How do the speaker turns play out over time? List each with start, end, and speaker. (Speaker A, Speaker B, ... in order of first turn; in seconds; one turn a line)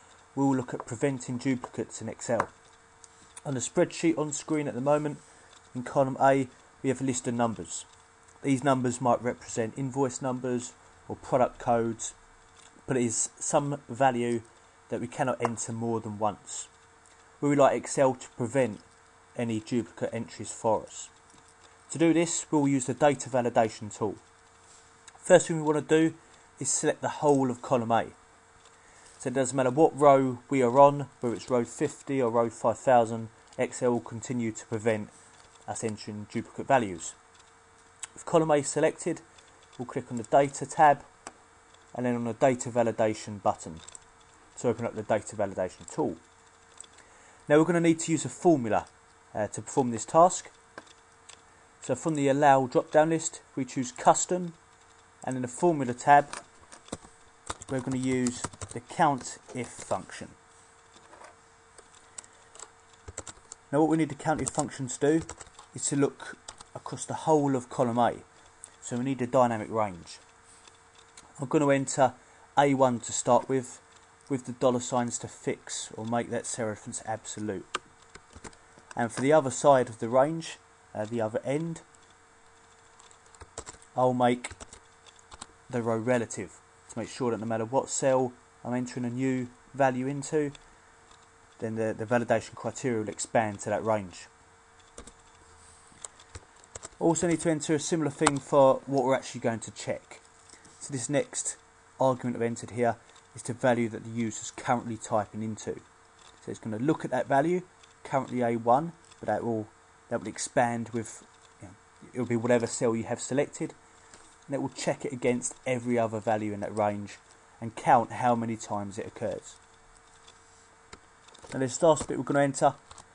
Speaker A: 0.3-2.5
Speaker A: 3.4-5.2
Speaker A: 5.7-7.9
Speaker A: 8.4-12.1
Speaker A: 12.8-16.7
Speaker A: 17.4-21.1
Speaker A: 21.9-24.2
Speaker A: 25.2-28.1
Speaker A: 29.2-35.1
Speaker A: 35.6-37.1
Speaker A: 38.1-39.2
Speaker A: 39.8-41.0
Speaker A: 41.9-43.8
Speaker A: 44.5-46.2
Speaker A: 47.5-50.5
Speaker A: 51.8-54.5
Speaker A: 55.2-56.4
Speaker A: 57.7-60.4
Speaker A: 63.7-68.2
Speaker A: 68.8-70.2
Speaker A: 71.4-77.7
Speaker A: 79.0-81.8
Speaker A: 84.0-84.5
Speaker A: 85.7-90.5
Speaker A: 91.6-94.3
Speaker A: 97.0-100.2
Speaker A: 100.8-105.8
Speaker A: 106.4-113.7
Speaker A: 114.5-119.6
Speaker A: 121.5-122.8